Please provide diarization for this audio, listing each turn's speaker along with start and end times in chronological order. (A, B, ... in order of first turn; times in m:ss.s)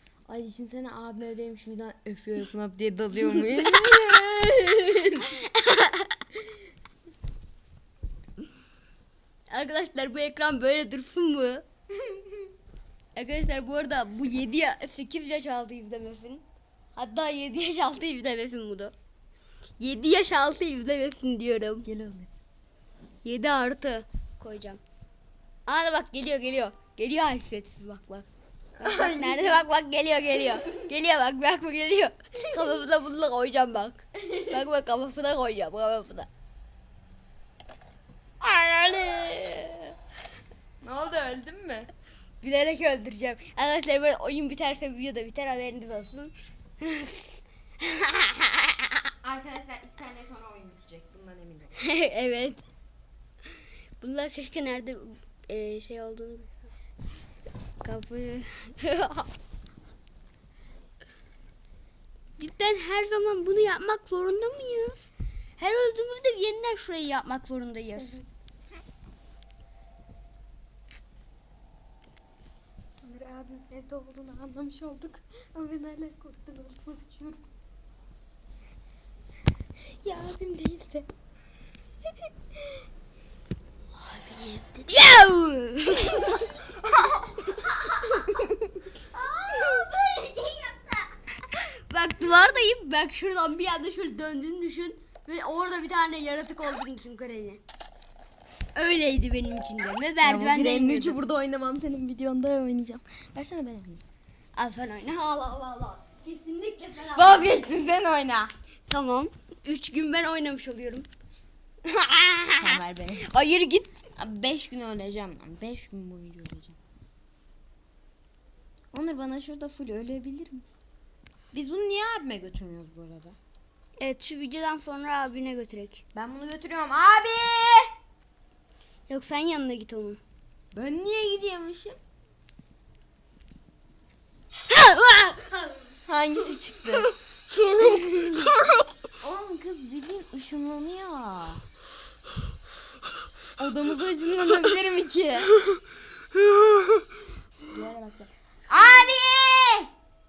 0:00.3-0:05.4 A
0:05.3-0:06.1 B
0:09.5-0:11.6 B
0:13.2-0:16.4 B
0:17.0-0:18.9 B
0:19.8-0:21.9 B
0:21.8-0:22.3 A
0:23.2-0:24.8 B
0:25.7-0:28.3 B
0:28.8-0:29.6 A
0:28.8-0:36.3 B
0:34.3-0:34.5 A
0:38.4-0:40.0 B
0:40.8-0:41.9 A
0:42.4-0:48.9 B
0:49.2-0:51.8 A
0:51.8-0:52.6 B
0:54.0-0:56.7 B
0:57.8-0:59.3 B
1:02.4-1:08.2 B
1:13.0-1:17.4 A
1:19.9-1:21.1 A
1:24.1-1:26.5 A
1:26.0-1:26.4 B
1:27.0-1:28.2 B
1:28.2-1:28.6 A
1:29.1-1:37.6 B
1:38.7-1:41.2 B
1:40.2-1:44.0 A
1:44.6-1:47.7 B
1:47.1-1:48.5 A
1:48.9-1:51.1 B
1:51.9-1:54.0 B
1:52.6-1:53.2 A
1:54.2-1:56.8 A
1:58.9-2:00.7 A
2:01.5-2:03.4 A
2:04.0-2:06.0 B
2:06.2-2:07.9 A
2:09.1-2:10.2 B
2:10.7-2:12.0 A
2:14.7-2:15.9 B
2:16.1-2:17.1 A
2:16.9-2:18.9 B
2:17.7-2:18.6 A
2:19.2-2:21.6 A
2:23.6-2:25.5 A
2:27.7-2:29.9 A